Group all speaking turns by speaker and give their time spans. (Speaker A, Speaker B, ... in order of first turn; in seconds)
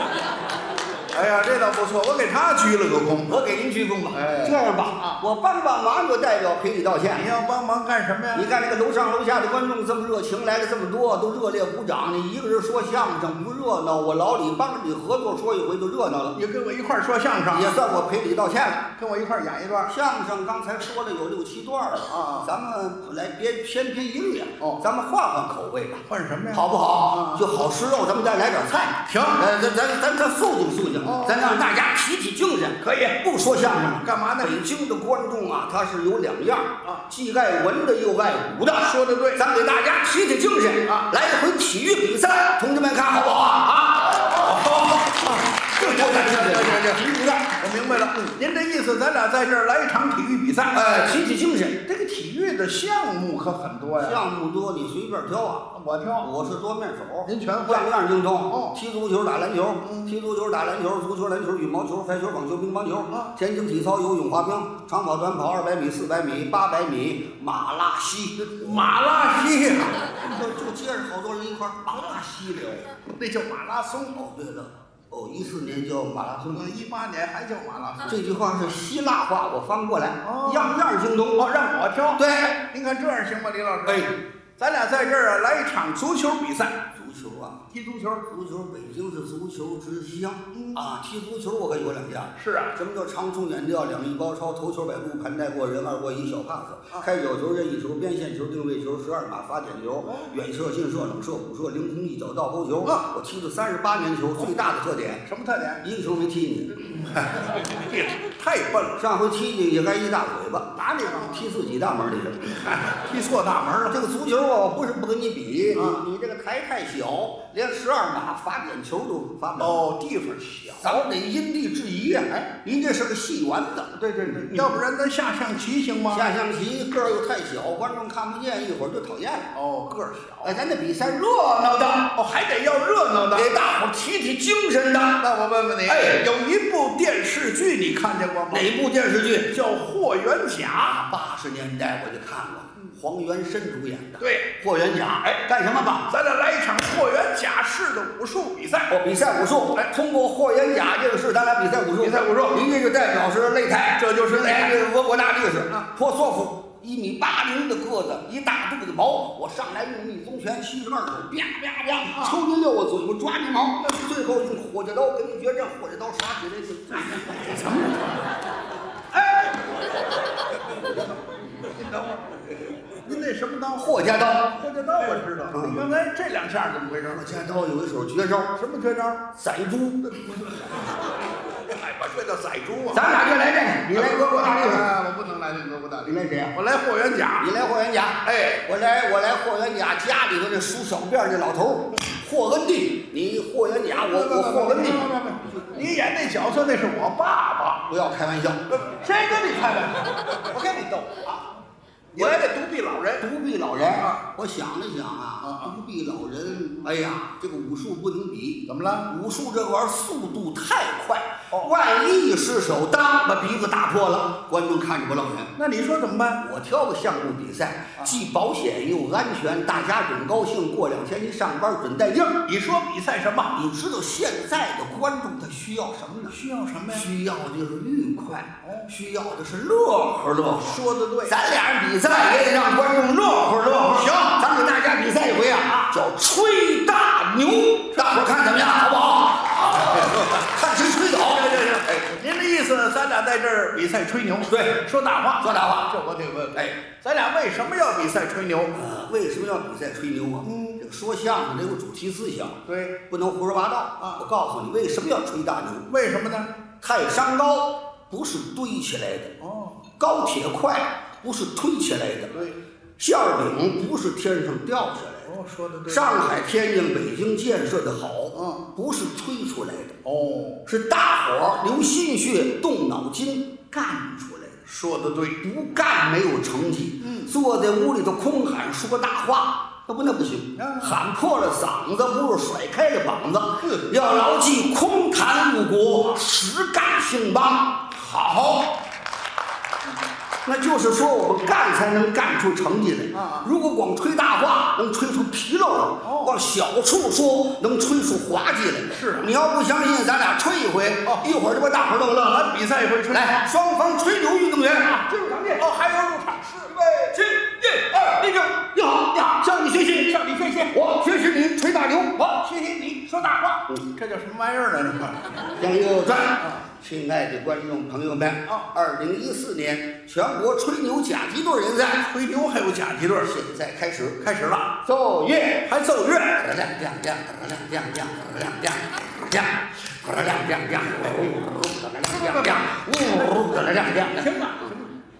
Speaker A: 1.1-3.4, 4.1-5.2, 7.1-8.5, 16.3-17.8, 19.0-19.9, 22.1-22.5, 26.1-27.4, 29.0-29.5, 31.0-31.6, 32.8-33.2, 34.0-34.5, 38.8-39.4, 44.2-51.0, 51.9-54.2, 55.7-56.3, 57.3-57.9, 58.5-58.8, 59.8-60.1, 68.4-70.1, 71.9-72.2, 73.1-74.2, 76.5-78.2, 80.2-80.8, 81.4-86.8, 87.7-88.2, 90.5-90.8, 92.4-92.8, 105.3-105.8, 107.0-109.0, 110.8-111.5, 112.4-114.0, 115.7-116.0, 119.5-121.0, 124.0-126.3, 129.5-130.6, 132.1-133.5, 135.2-138.7, 139.5-141.0, 144.2-144.5, 146.1-148.9, 152.0-152.7, 154.0-154.9, 162.1-162.4, 166.9-168.1, 169.1-169.6, 171.9-172.2, 173.0-177.2, 178.6-179.3, 181.7-183.1, 183.9-187.5, 188.2-188.7, 194.0-197.9, 198.7-201.4, 202.1-203.3, 205.4-205.7, 208.7-209.1, 215.6-216.4, 222.4-223.6, 226.3-227.1, 228.6-228.9, 230.6-231.4, 233.8-234.4, 237.9-238.2, 239.7-240.4, 241.2-248.8, 250.4-250.8, 252.7-253.0, 254.0-254.2, 255.9-256.5, 259.4-259.8, 265.3-266.2, 268.3-268.7, 270.1-270.6, 274.7-275.4, 277.0-277.3, 280.6-281.0, 283.6-283.9, 287.9-288.8, 293.1-293.5, 296.0-296.4, 298.9-299.3, 302.3-303.4, 305.6-306.9, 312.3-315.2, 322.1-323.4, 324.2-324.8, 325.6-326.5, 332.1-332.6, 333.9-334.9
Speaker B: 3.3-7.3, 8.3-16.4, 17.5-18.9, 19.9-44.3, 45.7-47.5, 50.7-51.8, 54.0-55.7, 56.2-68.9, 70.2-72.9, 74.1-76.7, 78.0-81.5, 82.2-82.6, 83.9-84.1, 87.0-87.7, 88.3-105.2, 105.8-107.2, 109.0-112.7, 113.9-119.7, 120.8-124.6, 126.1-129.5, 130.4-132.2, 133.3-135.2, 135.9-136.2, 138.5-139.6, 140.9-146.1, 148.9-168.0, 173.8-174.6, 175.5-175.8, 177.0-178.6, 179.3-180.8, 182.9-184.9, 186.1-186.5, 187.4-195.3, 197.9-198.7, 202.2-202.4, 203.2-215.5, 216.4-222.4, 223.5-226.4, 226.9-241.6, 244.5-244.8, 245.4-245.9, 248.7-255.9, 256.8-259.4, 260.0-262.4, 263.0-265.3, 265.9-270.0, 270.7-274.6, 275.4-288.0, 290.4-302.5, 303.1-305.6, 306.8-312.4, 315.6-322.1, 323.2-324.2, 324.9-325.7, 326.4-334.4